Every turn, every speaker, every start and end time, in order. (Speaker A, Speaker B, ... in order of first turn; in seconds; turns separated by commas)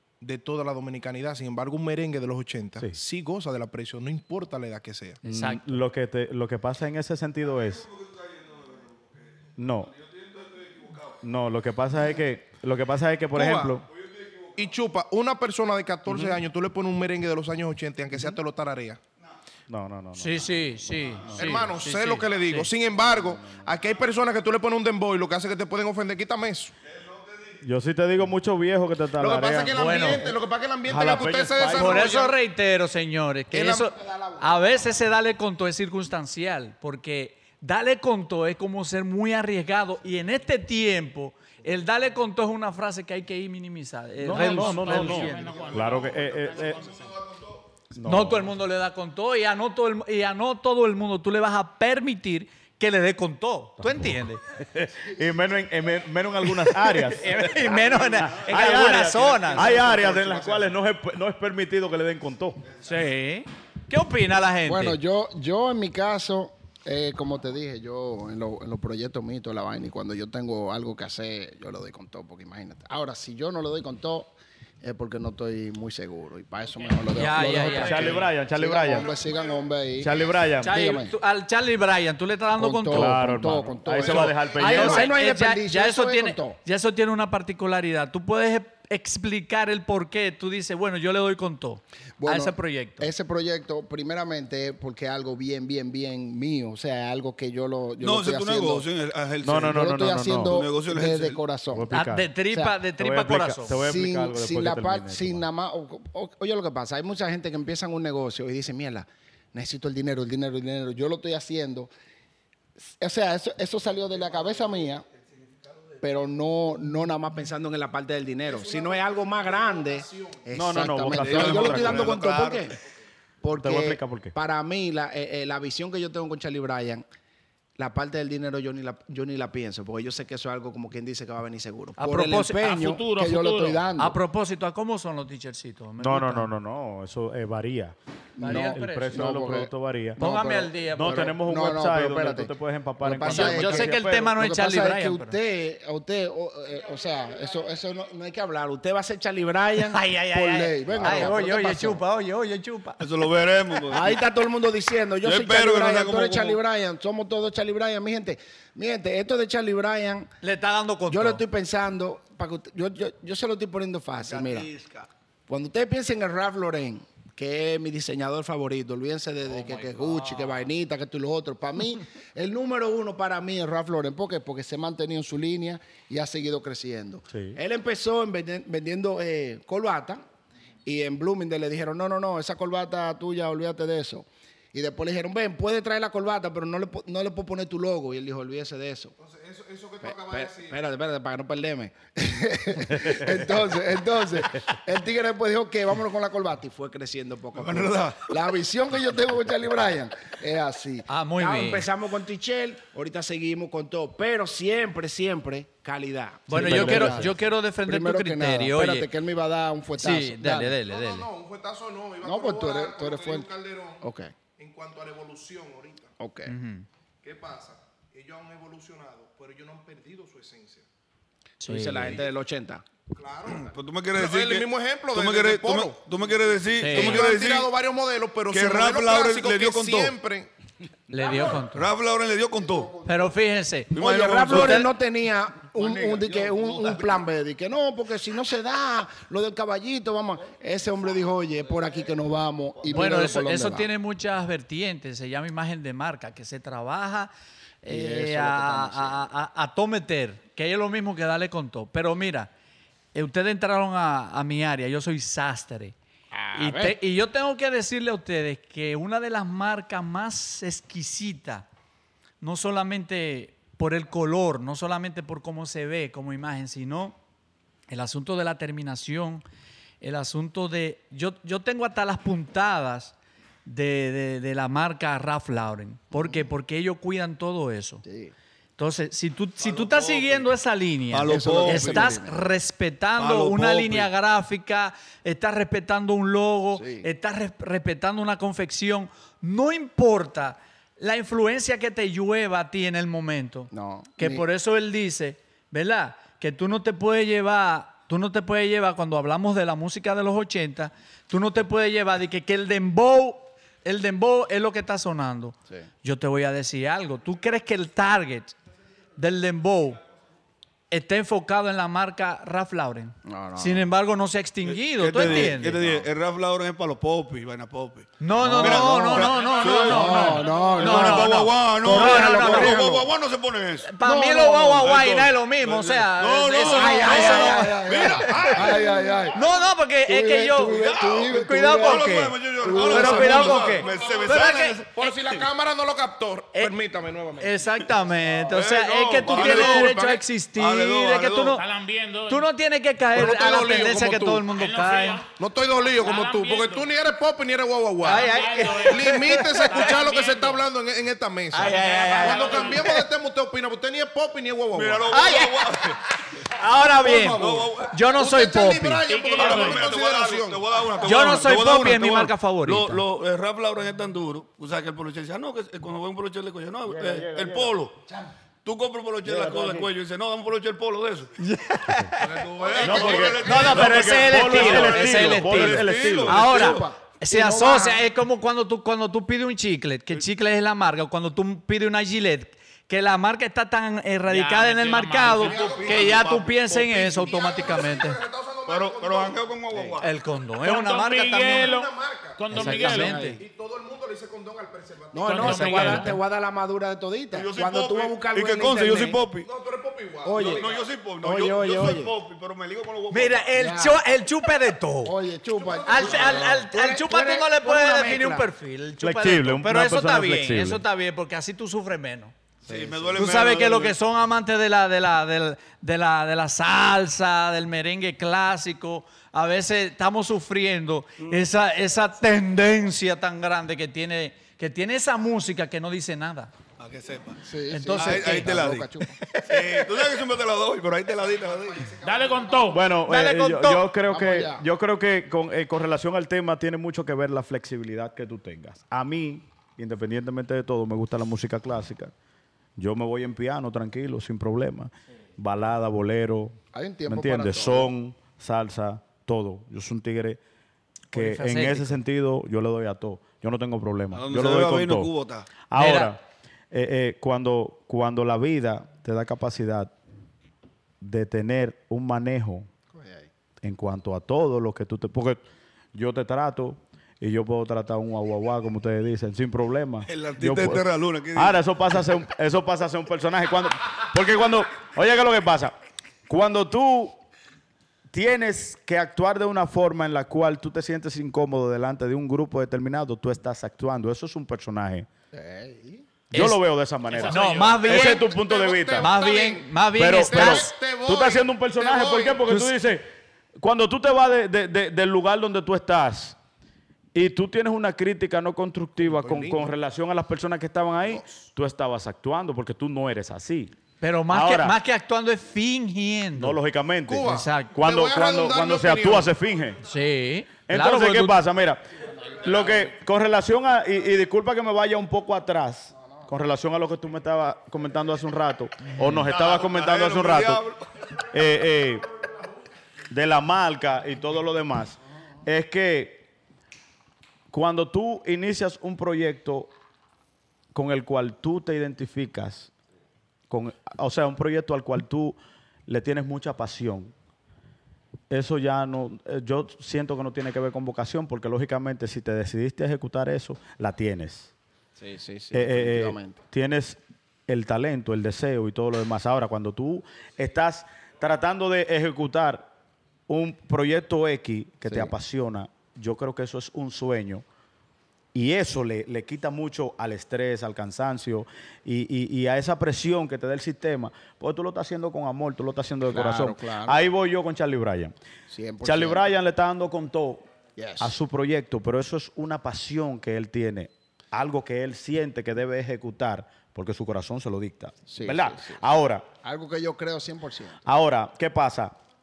Speaker A: 0.2-5.2, Speaker B: 5.2-5.8, Speaker C: 5.3-7.9, Speaker D: 7.8-11.2, Speaker C: 9.6-9.9, Speaker C: 11.2-13.9, Speaker A: 13.3-13.8, Speaker D: 13.9-14.6, Speaker A: 14.6-19.0, Speaker C: 19.7-20.7, Speaker B: 20.1-22.7, Speaker C: 21.2-21.5, Speaker A: 21.3-26.7, Speaker C: 23.1-23.3, Speaker C: 27.6-30.3, Speaker A: 29.2-32.4, Speaker B: 29.8-30.3, Speaker C: 30.9-32.1, Speaker B: 31.6-45.7, Speaker A: 33.5-34.2, Speaker C: 44.2-46.9, Speaker E: 44.3-47.0, Speaker D: 45.3-47.6, Speaker C: 47.9-48.5, Speaker B: 48.0-54.4, Speaker C: 54.5-62.6, Speaker B: 56.8-59.8, Speaker A: 59.5-60.6, Speaker B: 62.8-65.0, Speaker F: 64.7-81.1, Speaker B: 77.1-78.3, Speaker C: 77.8-79.1, Speaker A: 78.9-79.7, Speaker C: 80.0-80.8, Speaker B: 80.6-83.1, Speaker F: 82.6-86.6, Speaker C: 82.9-85.1, Speaker B: 84.0-93.1, Speaker F: 92.2-98.9, Speaker D: 98.0-99.8, Speaker C: 99.4-100.7, Speaker F: 99.6-102.0, Speaker D: 100.5-101.4, Speaker C: 101.7-102.3, Speaker B: 101.9-103.7, Speaker C: 103.0-105.5, Speaker F: 103.7-111.9, Speaker F: 113.0-115.0, Speaker F: 116.0-122.8, Speaker A: 118.5-120.5, Speaker C: 120.5-122.2, Speaker D: 121.1-122.8, Speaker F: 123.4-127.0, Speaker C: 123.6-124.3, Speaker F: 127.8-134.2, Speaker B: 132.0-132.7, Speaker E: 132.6-133.8, Speaker B: 134.0-136.5, Speaker C: 136.0-140.2, Speaker B: 138.4-139.1, Speaker F: 138.4-142.5, Speaker B: 140.2-141.3, Speaker C: 140.9-144.4, Speaker F: 143.0-152.0, Speaker B: 143.2-145.4, Speaker B: 149.8-153.0, Speaker D: 153.0-154.2, Speaker F: 153.9-160.3, Speaker D: 155.2-156.6, Speaker B: 160.4-161.4, Speaker F: 161.1-164.7, Speaker D: 164.2-165.1, Speaker F: 165.5-180.2, Speaker B: 169.5-170.7, Speaker C: 177.3-177.6, Speaker F: 180.8-189.1, Speaker A: 189.2-190.8, Speaker F: 190.0-210.8, Speaker D: 197.5-198.3, Speaker B: 201.1-201.9, Speaker B: 206.5-209.1, Speaker C: 206.5-207.3, Speaker B: 210.0-211.3, Speaker A: 210.9-214.0, Speaker F: 212.2-213.5, Speaker F: 214.0-214.3, Speaker A: 214.6-216.1, Speaker F: 216.2-216.5, Speaker B: 216.5-216.9, Speaker A: 217.2-220.9, Speaker B: 221.6-222.2, Speaker F: 221.7-222.8, Speaker A: 223.1-226.1, Speaker D: 223.5-227.7, Speaker B: 226.8-227.2, Speaker A: 226.9-230.5, Speaker D: 228.5-230.1, Speaker B: 231.1-231.9, Speaker D: 231.3-233.0, Speaker B: 233.0-234.9, Speaker D: 233.9-234.9, Speaker F: 233.9-243.9, Speaker D: 235.8-237.2, Speaker B: 242.9-247.3, Speaker B: 247.8-252.5, Speaker F: 247.9-249.2, Speaker B: 253.1-255.9, Speaker F: 256.3-257.0, Speaker B: 256.5-261.7, Speaker B: 262.4-267.2, Speaker B: 267.9-269.4, Speaker B: 270.0-278.0, Speaker F: 276.1-276.4, Speaker F: 278.0-278.3, Speaker B: 278.8-308.6, Speaker D: 279.6-280.5, Speaker D: 281.1-282.1, Speaker F: 281.2-282.4, Speaker D: 283.2-284.1, Speaker F: 286.8-287.1, Speaker F: 293.7-294.4, Speaker B: 309.2-310.0, Speaker B: 310.9-315.8, Speaker F: 313.2-313.9, Speaker D: 314.6-323.9, Speaker B: 318.2-322.8, Speaker F: 318.4-319.2, Speaker A: 319.8-320.8, Speaker F: 319.8-323.1, Speaker B: 323.8-328.6, Speaker F: 324.0-324.9, Speaker D: 324.8-328.8, Speaker F: 326.7-329.4, Speaker A: 327.9-329.3, Speaker B: 329.3-335.1, Speaker F: 330.1-332.1, Speaker D: 330.7-334.9, Speaker F: 332.6-333.5, Speaker A: 332.8-337.6, Speaker B: 337.4-341.6, Speaker D: 338.5-339.9, Speaker A: 339.2-340.2, Speaker D: 340.5-341.6, Speaker E: 341.6-342.5, Speaker B: 342.3-345.2, Speaker A: 343.1-344.4, Speaker E: 344.4-345.3, Speaker A: 345.4-355.2, Speaker E: 346.0-346.9, Speaker B: 348.0-350.0, Speaker E: 348.1-350.6, Speaker B: 351.5-353.0, Speaker D: 351.8-352.7, Speaker D: 354.7-356.0, Speaker B: 355.1-355.9, Speaker B: 356.4-359.0, Speaker A: 357.0-360.9, Speaker D: 357.0-358.0, Speaker E: 359.1-359.9, Speaker D: 359.3-368.0, Speaker B: 361.0-363.0, Speaker C: 366.9-367.7, Speaker D: 368.6-371.4, Speaker C: 369.2-369.9, Speaker B: 371.4-372.2, Speaker D: 372.2-376.9, Speaker A: 372.2-373.9, Speaker C: 372.8-376.4, Speaker B: 373.4-388.2, Speaker F: 376.3-378.0, Speaker E: 384.3-385.5, Speaker D: 385.3-387.1, Speaker A: 385.4-389.4, Speaker D: 388.7-390.1, Speaker B: 390.0-391.7, Speaker E: 390.6-393.2, Speaker A: 391.4-392.7, Speaker B: 392.5-393.4, Speaker F: 392.5-393.4, Speaker A: 393.4-395.6, Speaker F: 395.1-399.2, Speaker E: 395.2-396.1, Speaker B: 395.4-396.2, Speaker D: 397.3-399.5, Speaker A: 399.4-400.8, Speaker F: 400.2-402.1, Speaker D: 400.4-403.5, Speaker B: 403.1-405.1, Speaker F: 403.5-404.0, Speaker F: 405.0-408.5, Speaker A: 405.6-406.5, Speaker B: 405.9-412.3, Speaker C: 409.0-410.8, Speaker D: 412.6-414.0, Speaker F: 412.7-413.2, Speaker B: 413.1-426.5, Speaker D: 426.8-427.4, Speaker F: 427.4-429.2, Speaker B: 427.7-428.7, Speaker D: 427.9-428.9, Speaker B: 429.2-429.9, Speaker D: 429.4-431.9, Speaker A: 431.3-432.6, Speaker E: 432.0-432.8, Speaker C: 432.7-442.1, Speaker B: 433.0-433.9, Speaker F: 434.1-434.6, Speaker C: 442.8-446.6, Speaker F: 446.7-447.9, Speaker C: 447.1-450.4, Speaker B: 451.1-452.0, Speaker C: 451.1-455.1, Speaker D: 454.1-455.5, Speaker C: 455.7-456.2, Speaker B: 455.8-456.1, Speaker C: 456.7-459.9, Speaker C: 461.0-462.7, Speaker F: 462.9-463.3, Speaker C: 463.6-465.4, Speaker C: 465.9-475.7, Speaker D: 470.1-471.6, Speaker C: 476.3-477.2, Speaker C: 478.1-485.1, Speaker F: 485.3-486.1, Speaker B: 486.3-486.6, Speaker C: 486.3-489.1, Speaker E: 487.1-487.9, Speaker B: 487.2-488.3, Speaker A: 487.8-492.4, Speaker B: 489.0-490.7, Speaker C: 490.0-493.1, Speaker B: 492.5-492.7, Speaker C: 493.6-496.4, Speaker C: 497.1-503.7, Speaker A: 499.0-499.7, Speaker B: 504.0-506.6, Speaker C: 504.3-504.8, Speaker C: 506.4-509.8, Speaker A: 507.1-509.3, Speaker B: 507.2-507.7, Speaker B: 509.9-511.4, Speaker C: 510.7-520.6, Speaker B: 518.9-519.2, Speaker D: 519.3-520.9, Speaker C: 521.2-522.1, Speaker C: 523.1-526.2, Speaker C: 527.5-529.7, Speaker C: 530.7-532.7, Speaker C: 533.5-537.1, Speaker C: 538.3-544.5, Speaker F: 545.0-546.4, Speaker C: 545.5-552.7, Speaker C: 553.3-557.4, Speaker C: 558.3-568.1, Speaker F: 566.1-567.0, Speaker F: 568.5-569.2, Speaker C: 568.8-570.5, Speaker F: 570.8-571.1, Speaker C: 571.0-579.2, Speaker F: 578.1-578.8, Speaker F: 579.4-580.8, Speaker C: 580.9-581.9